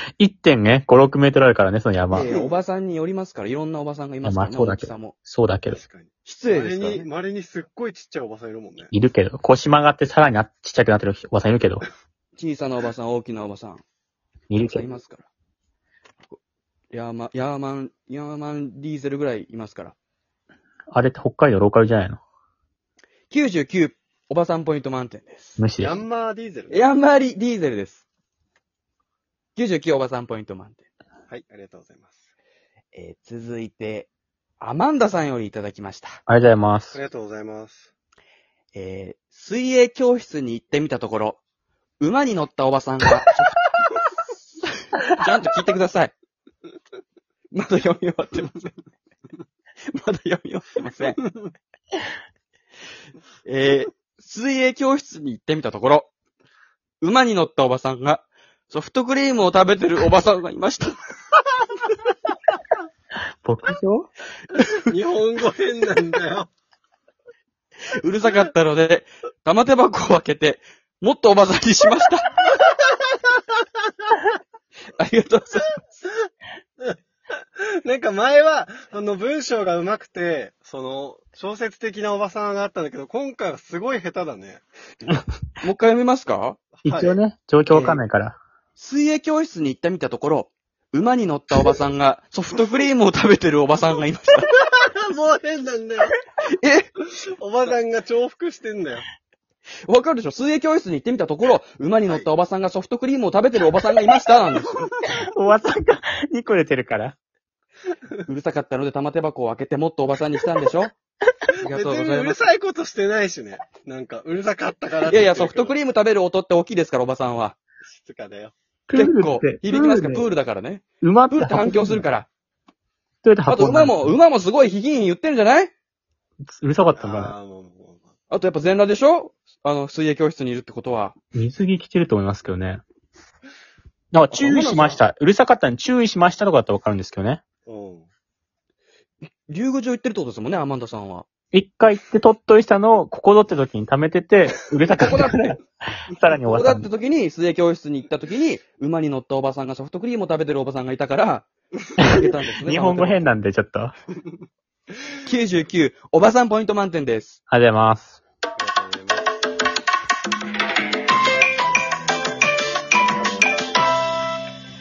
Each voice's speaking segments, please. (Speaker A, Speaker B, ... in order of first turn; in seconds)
Speaker A: 0.2-2.3, 4.2-5.8, 8.9-11.8, 14.5-14.9, 20.9-22.2, 25.6-26.0, 36.3-37.0, 63.4-64.1, 86.8-88.4, 105.1-107.2, 118.9-120.3, 121.0-122.0, 123.2-124.1, 126.5-127.3, 131.3-132.8, 134.1-137.4, 141.5-146.9, 152.2-153.9, 157.5-158.2
Speaker B: 2.1-5.1, 6.2-7.1, 12.3-13.8, 14.6-15.3, 16.9-19.9, 23.3-25.6, 26.7-28.0, 29.6-30.8, 32.9-36.2, 38.7-41.4, 42.0-43.5, 44.6-46.1, 47.5-48.7, 49.9-51.2, 53.4-56.1, 57.0-61.0, 64.5-64.9, 68.0-72.3, 75.0-75.7, 85.6-86.6, 87.7-88.0, 88.8-94.5, 96.6-96.9, 99.8-104.8, 108.2-110.9, 111.6-112.4, 115.1-117.6, 118.9-122.3, 123.5-125.7, 128.3-131.1, 134.3-135.0, 139.5-141.3, 144.9-145.6, 146.4-153.3, 155.2-157.4
Speaker C: 2.2-2.6, 5.7-8.9, 25.8-26.8, 31.3-32.2, 36.9-37.9, 64.9-66.5, 77.6-85.2, 86.8-87.2, 94.6-96.1, 97.4-99.0, 111.7-115.8, 117.9-118.5, 127.0-128.1, 137.7-138.1, 158.6-159.3